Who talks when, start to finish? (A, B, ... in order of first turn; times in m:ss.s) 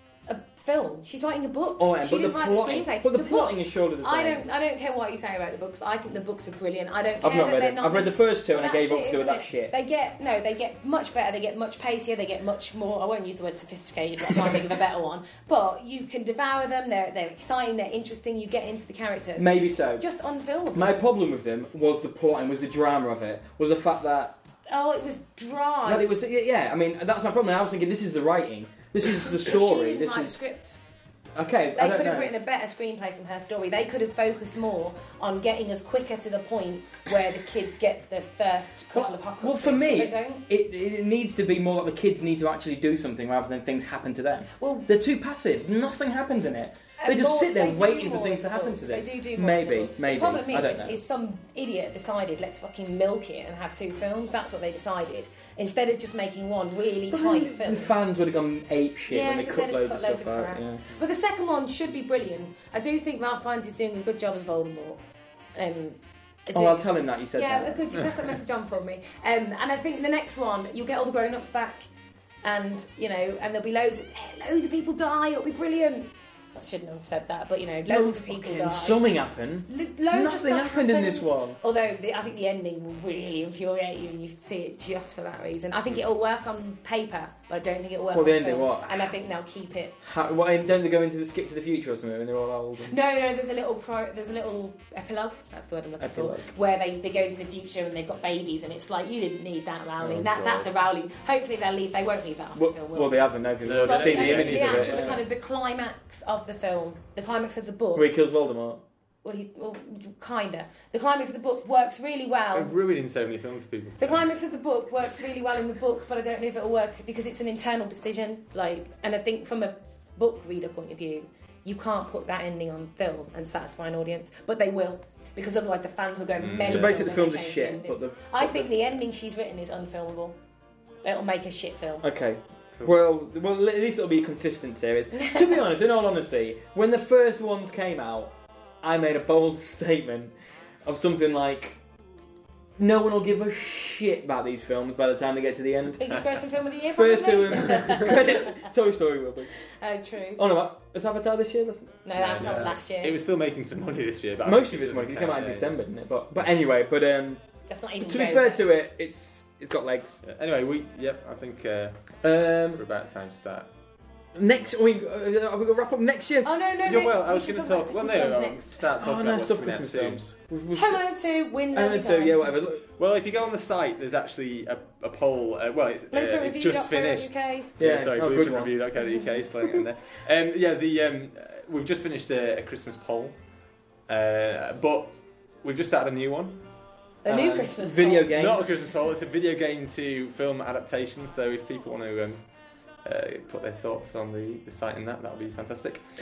0:00.3-0:21.0 A
0:01.8-0:04.4 B
0:07.2-0:09.7 B
0:19.4-0:20.0 B
0:20.7-0:24.4 B
0:24.7-0:26.1 A
0:25.8-0:30.4 B
0:29.2-0:30.8 A
0:31.3-0:32.3 B
0:31.8-0:40.4 A
0:38.9-0:51.0 B
0:44.6-0:44.9 A
0:47.0-0:57.9 A
0:57.1-1:00.8 B
0:59.1-1:05.0 A
1:05.5-1:11.8 A
1:06.5-1:07.8 B
1:12.4-1:19.1 A
1:17.9-1:21.6 B
1:19.7-1:30.0 A
1:28.1-1:29.1 B
1:30.0-1:33.0 B
1:32.9-1:48.1 A
1:36.0-1:36.5 B
1:40.0-1:40.7 C
1:42.5-1:45.2 B
1:43.6-1:45.2 C
1:47.9-1:48.8 B
1:49.2-1:52.8 A
1:52.5-1:54.3 C
1:54.0-2:10.4 A
2:06.4-2:07.0 C
2:06.6-2:08.8 B
2:11.0-2:12.0 A
2:12.0-2:20.3 B
2:15.2-2:15.6 A
2:20.8-2:21.8 B
2:22.8-2:26.1 B
2:26.0-2:28.6 A
2:26.9-2:29.5 B
2:29.8-2:30.4 A
2:30.4-2:32.0 B
2:32.0-2:33.2 A
2:32.1-2:35.7 C
2:34.4-2:37.4 B
2:37.7-2:38.7 A
2:38.0-2:40.2 B
2:40.2-2:43.7 C
2:42.2-2:42.8 B
2:44.3-2:46.5 B
2:46.4-2:48.9 A
2:46.8-2:50.3 C
2:49.0-2:51.0 B
2:50.7-2:52.6 A
2:51.7-2:52.9 B
2:53.0-3:03.4 C
2:56.1-2:57.7 A
2:57.8-2:58.8 B
3:04.1-3:06.6 C
3:07.2-3:08.5 A
3:07.2-3:12.4 C
3:07.8-3:08.9 B
3:13.0-3:16.0 C